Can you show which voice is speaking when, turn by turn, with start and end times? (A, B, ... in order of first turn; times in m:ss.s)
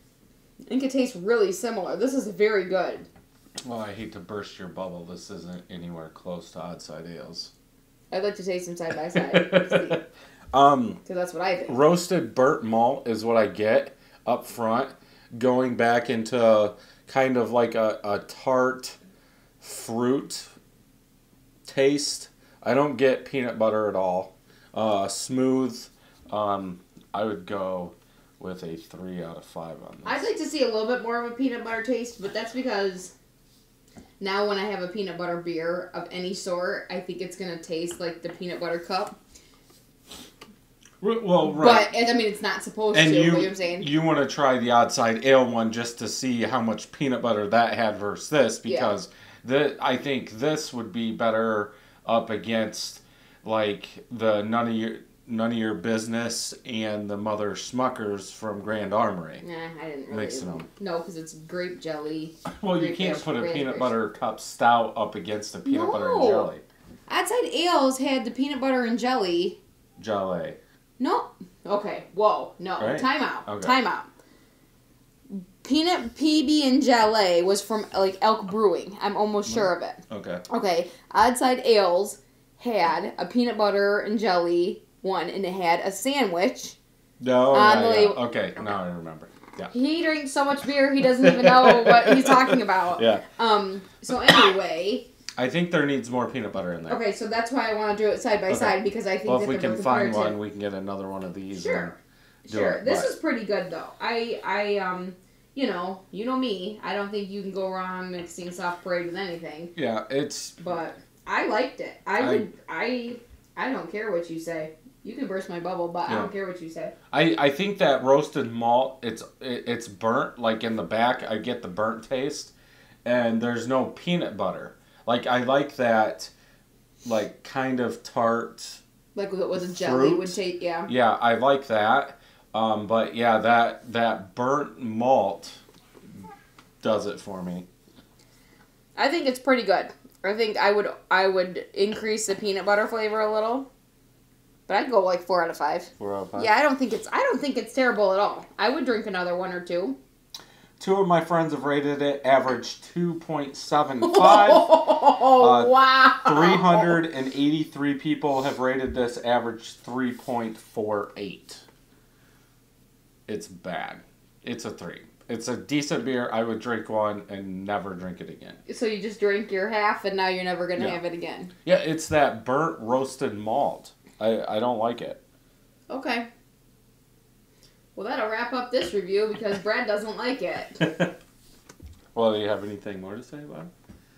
0:00.7-0:03.1 A
0:03.6-0:07.5 B
0:08.1-0:10.0 A
0:09.2-0:11.0 B
0:11.0-0:11.8 A
0:11.7-0:19.0 B
0:19.6-0:20.5 B
0:21.7-0:30.2 B
0:30.0-0:33.1 A
0:34.2-0:39.2 A
0:41.0-0:41.9 B
0:41.4-0:43.9 A
0:42.9-0:59.4 B
0:48.6-0:49.0 A
0:59.4-1:03.9 A
1:00.1-1:00.7 B
1:02.5-1:06.6 B
1:05.6-1:06.5 A
1:07.1-1:09.6 A
1:10.0-1:10.6 B
1:11.0-1:14.1 A
1:12.8-1:13.8 B
1:15.3-1:26.8 A
1:19.5-1:20.4 B
1:27.2-1:29.7 B
1:27.5-1:28.2 A
1:29.7-1:35.1 A
1:31.2-1:33.3 B
1:35.4-1:37.0 B
1:36.9-1:40.4 A
1:38.5-1:42.0 B
1:41.5-1:41.9 A
1:42.5-1:49.8 A
1:42.5-1:43.1 B
1:49.8-1:50.6 B
1:50.6-1:56.9 A
1:52.2-1:52.5 B
1:57.1-2:02.5 B
2:03.0-2:06.3 B
2:07.0-2:08.8 B
2:09.2-2:10.9 A
2:09.6-2:15.6 B
2:16.8-2:17.7 B
2:19.0-2:23.7 A
2:24.7-2:30.0 A
2:26.0-2:26.5 B
2:30.8-2:41.6 B
2:34.0-2:37.0 A
2:43.3-2:48.6 B
2:48.7-2:51.5 A
2:51.6-2:55.2 B
2:55.9-2:56.3 A
2:58.0-3:00.8 A
3:00.8-3:01.1 B
3:02.2-3:03.7 B